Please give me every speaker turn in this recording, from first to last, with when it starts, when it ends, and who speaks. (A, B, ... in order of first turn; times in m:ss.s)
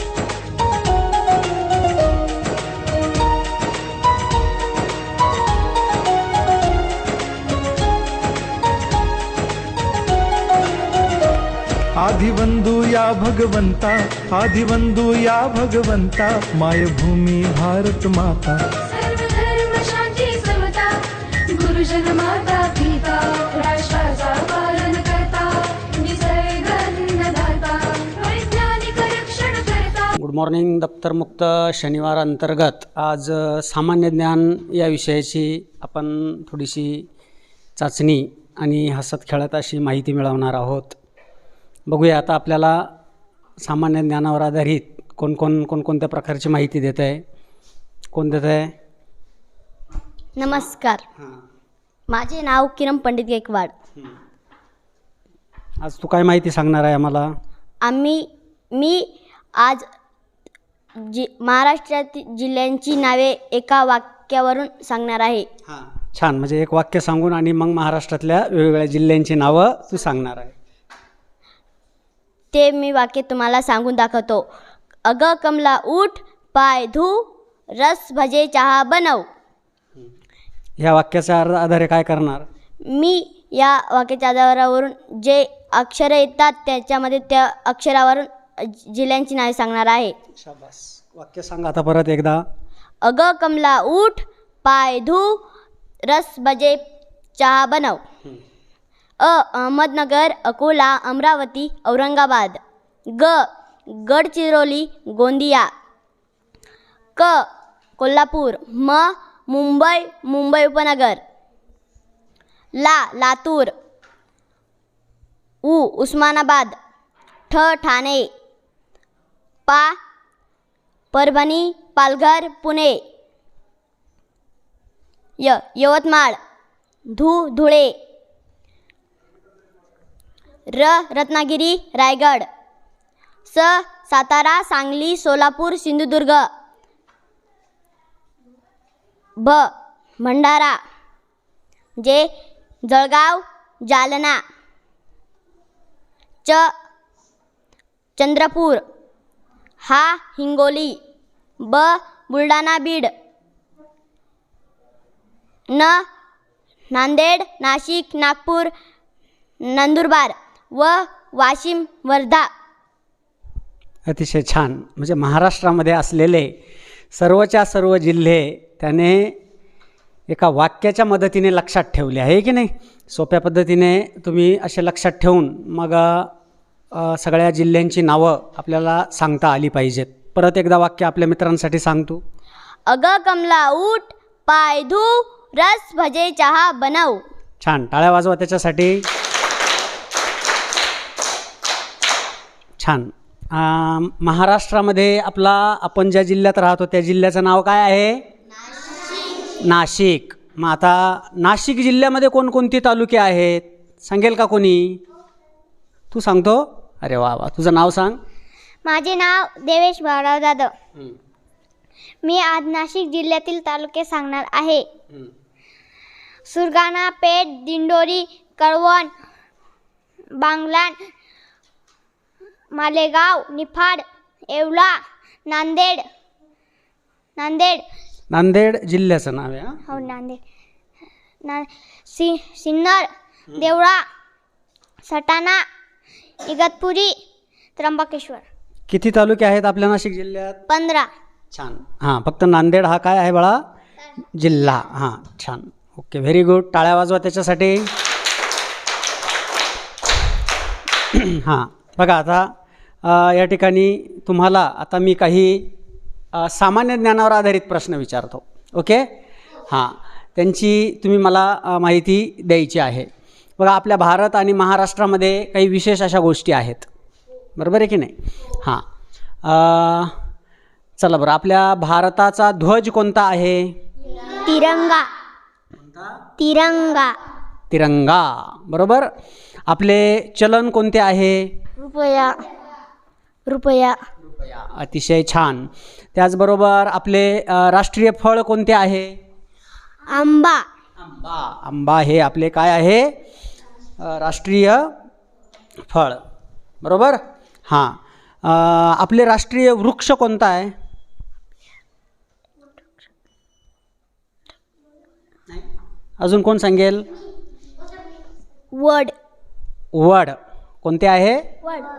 0:12.0-0:18.5 A
0:18.8-0:30.1 B
0:30.1-0:37.1 C
0:37.8-0:41.0 C
0:41.9-0:42.9 C
0:43.6-0:47.2 C
0:48.1-0:48.7 C
0:50.4-0:51.0 D
0:52.1-0:53.7 D
0:55.8-0:57.3 C
0:57.8-0:59.8 D
1:01.0-1:05.5 D
1:05.7-1:10.5 C
1:12.5-1:14.5 D
1:15.1-1:19.2 D
1:20.8-1:22.4 C
1:22.9-1:30.1 D
1:30.3-1:32.4 C
1:33.0-1:35.4 D
1:36.1-1:36.8 D
1:37.4-1:38.0 D
1:39.2-1:45.7 D
1:47.2-1:51.2 D
1:52.8-1:53.7 D
1:55.6-1:56.8 D
1:57.5-1:58.3 D
1:59.7-2:00.0 D
2:01.1-2:03.0 D
2:05.4-2:06.4 D
2:07.1-2:08.0 D
2:10.7-2:12.4 D
2:13.5-2:16.5 D
2:19.4-2:20.8 D
2:22.0-2:22.3 D
2:22.8-2:24.4 D
2:26.4-2:26.7 D
2:28.2-2:28.8 D
2:29.8-2:31.0 D
2:31.6-2:33.1 D
2:35.7-2:36.0 D
2:36.9-2:38.7 D
2:39.6-2:42.5 D
2:44.1-2:46.5 C
2:47.1-2:49.4 C
2:50.3-2:56.3 C
2:56.9-3:02.2 C
3:02.9-3:07.2 D
3:07.6-3:09.0 C
3:12.8-3:18.2 C
3:19.6-3:25.0 C
3:26.1-3:28.2 C
3:28.8-3:30.7 E
3:32.2-3:34.8 E
3:36.4-3:39.1 E
3:40.4-3:41.0 E
3:42.7-3:44.9 E
3:45.4-3:46.0 E
3:47.4-3:47.8 E
3:48.3-3:50.0 C
3:49.9-3:50.4 E
3:51.4-3:54.0 E
3:55.0-3:55.6 E
3:56.4-3:57.1 E
3:57.8-3:58.4 E
3:58.9-4:00.6 C
4:00.7-4:01.1 E
4:01.5-4:03.6 C
4:04.3-4:07.9 C
4:11.1-4:15.7 C
4:16.3-4:19.1 C
4:19.7-4:26.9 C
4:27.6-4:28.8 C
4:29.4-4:30.1 C
4:31.0-4:33.8 C
4:34.3-4:35.1 E
4:35.8-4:36.2 C
4:36.4-4:37.2 E
4:37.7-4:39.1 C
4:39.7-4:41.5 C
4:41.8-4:42.5 E
4:43.5-4:44.0 E
4:44.2-4:49.2 C
4:50.1-4:50.6 E
4:51.0-4:53.2 C
4:54.0-4:55.0 C
4:55.9-4:56.2 C
4:56.8-5:00.7 C
5:06.2-5:07.1 C
5:09.9-5:11.4 C